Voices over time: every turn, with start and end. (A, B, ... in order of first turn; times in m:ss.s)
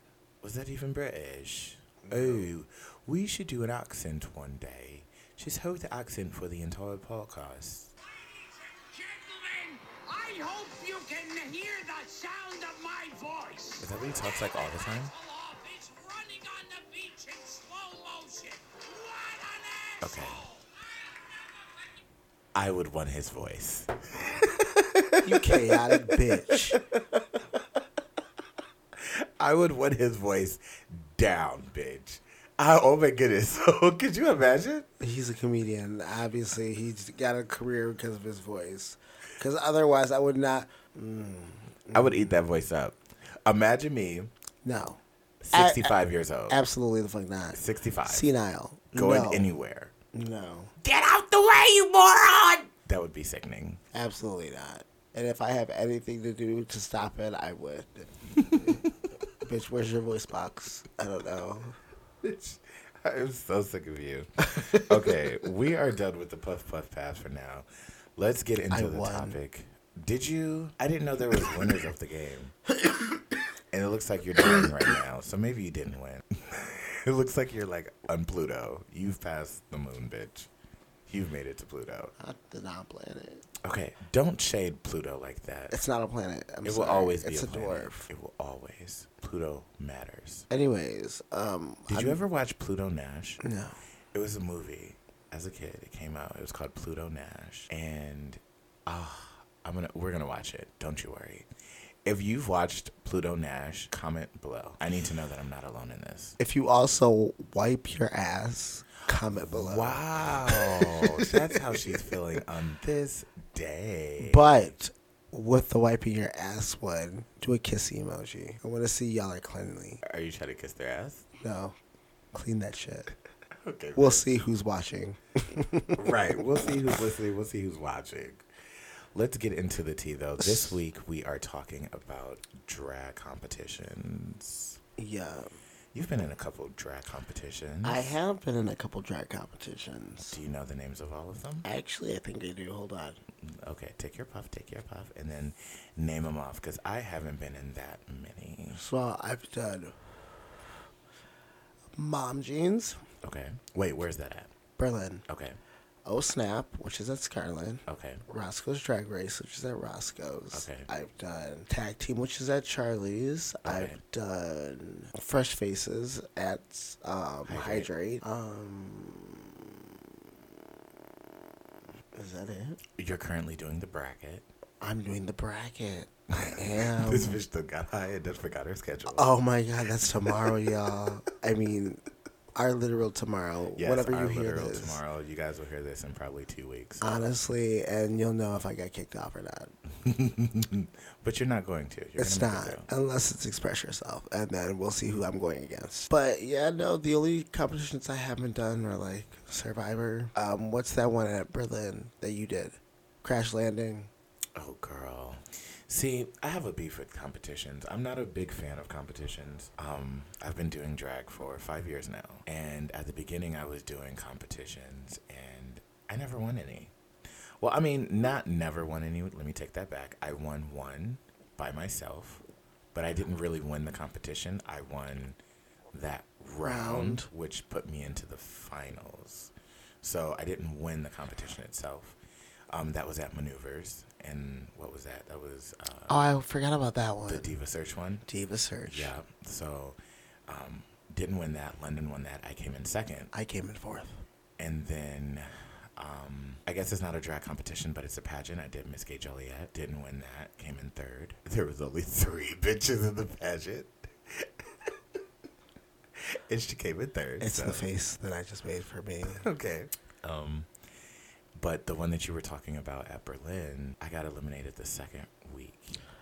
0:00.4-0:07.9 A
0:02.0-0:02.5 B
0:08.1-0:22.0 C
0:13.8-0:15.1 A
0:20.0-0:20.5 A
0:22.6-0:26.8 A
0:25.2-0:26.8 B
0:29.0-0:34.9 A
0:35.0-0:42.3 B
0:41.9-0:44.3 A
0:44.6-0:45.0 B
0:45.4-0:46.6 A
0:45.5-0:46.0 B
0:46.5-0:49.5 B
0:47.5-0:48.3 A
0:48.9-0:49.9 A
0:50.1-0:50.7 B
0:50.8-0:53.8 A
0:53.9-1:01.8 B
0:58.4-0:58.9 A
1:02.2-1:12.6 A
1:08.7-1:09.4 B
1:13.7-1:20.5 A
1:21.1-1:22.1 A
1:22.2-1:23.5 B
1:23.6-1:25.8 A
1:25.7-1:28.1 B
1:26.6-1:30.5 A
1:30.5-1:32.2 B
1:31.9-1:33.4 A
1:33.4-1:33.8 B
1:34.1-1:41.5 A
1:42.0-1:46.4 A
1:46.4-1:52.0 B
1:49.3-1:54.7 A
1:54.2-2:00.0 B
2:00.0-2:01.3 A
2:01.4-2:01.8 B
2:02.3-2:03.1 B
2:03.6-2:04.3 A
2:04.0-2:06.0 B
2:06.0-2:08.4 A
2:09.1-2:14.8 A
2:15.0-2:15.6 B
2:15.9-2:18.1 A
2:17.8-2:20.4 B
2:20.3-2:21.7 A
2:21.6-2:23.2 B
2:23.4-2:28.8 A
2:28.7-2:30.2 B
2:32.0-2:33.0 B
2:33.2-2:34.5 A
2:34.8-2:35.2 B
2:35.3-2:35.6 A
2:36.0-2:49.7 B
2:37.9-2:38.2 A
2:40.5-2:40.9 A
2:43.6-2:44.0 A
2:47.5-2:47.9 A
2:52.2-2:52.8 B
2:53.0-2:54.5 A
2:54.8-2:57.4 B
2:56.3-2:59.4 A
2:59.1-3:02.0 B
3:00.3-3:00.7 A
3:02.6-3:05.0 B
3:03.8-3:07.2 A
3:07.0-3:09.7 B
3:10.0-3:12.9 A
3:12.2-3:24.1 B
3:24.6-3:36.9 A
3:37.6-3:45.4 A
3:45.9-3:52.2 A
3:46.6-3:47.3 B
3:52.7-3:56.2 A
3:56.1-3:57.5 B
3:57.3-3:58.2 A
3:58.3-3:59.1 B
3:58.9-4:03.3 A
4:03.3-4:04.2 B
4:04.6-4:14.9 A
4:16.2-4:17.9 A
4:17.4-4:19.5 B
4:19.3-4:20.7 A
4:21.6-4:26.0 A